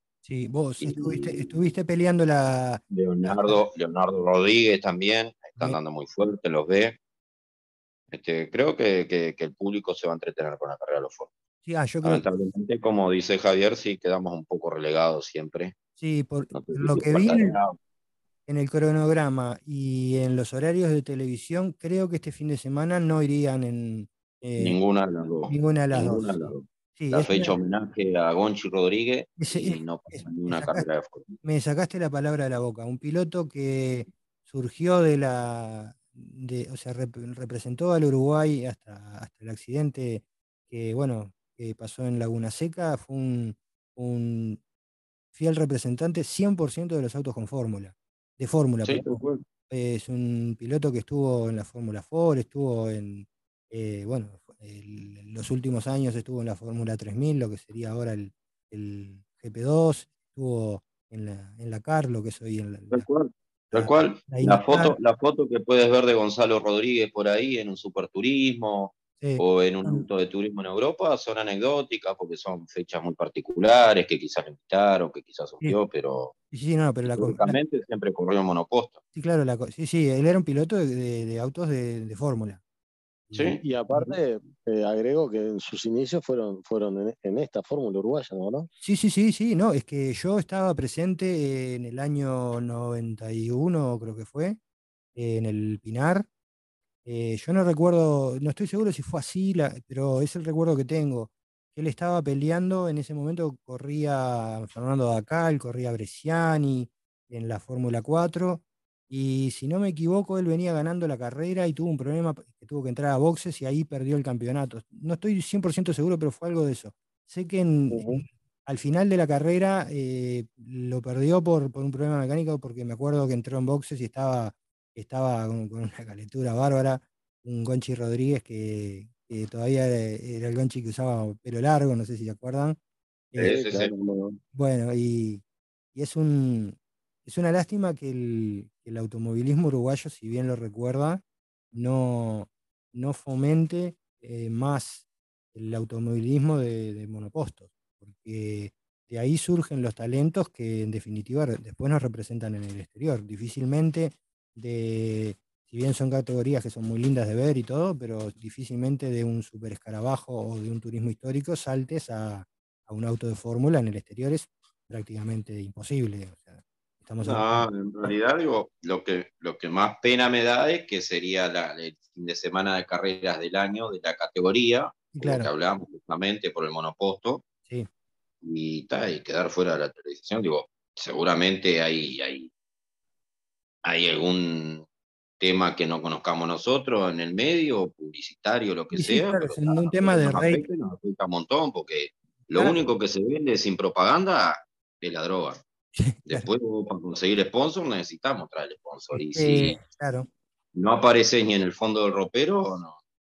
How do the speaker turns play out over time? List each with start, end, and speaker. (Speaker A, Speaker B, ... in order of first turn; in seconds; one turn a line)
Speaker A: 0.2-3.6
Speaker B: 0.8-1.5
Speaker B: 2.9-7.0
Speaker B: 8.1-11.3
Speaker A: 11.7-12.2
Speaker B: 12.0-15.7
Speaker A: 16.0-17.6
Speaker B: 16.5-17.8
Speaker A: 18.5-24.8
Speaker B: 24.6-31.3
Speaker A: 25.5-27.5
Speaker A: 29.4-30.8
Speaker A: 31.4-44.6
Speaker A: 45.3-63.1
Speaker B: 48.8-49.4
Speaker B: 62.9-76.3
Speaker A: 63.7-65.0
Speaker A: 69.2-70.0
Speaker A: 76.5-77.6
Speaker B: 77.1-79.0
Speaker A: 79.1-82.6
Speaker A: 83.3-84.2
Speaker B: 83.3-83.6
Speaker C: 83.6-88.7
Speaker A: 88.8-94.6
Speaker A: 95.2-96.3
Speaker A: 97.0-132.8
Speaker C: 117.9-118.2
Speaker A: 133.3-133.6
Speaker B: 133.4-133.9
Speaker C: 133.4-134.4
Speaker A: 134.5-135.4
Speaker A: 135.9-141.2
Speaker A: 141.7-168.1
Speaker B: 167.2-177.4
Speaker A: 175.1-175.5
Speaker B: 178.4-182.5
Speaker B: 183.8-184.8
Speaker B: 185.4-195.6
Speaker A: 188.9-190.6
Speaker A: 196.0-196.4
Speaker B: 196.3-199.8
Speaker A: 199.1-200.3
Speaker B: 200.7-203.0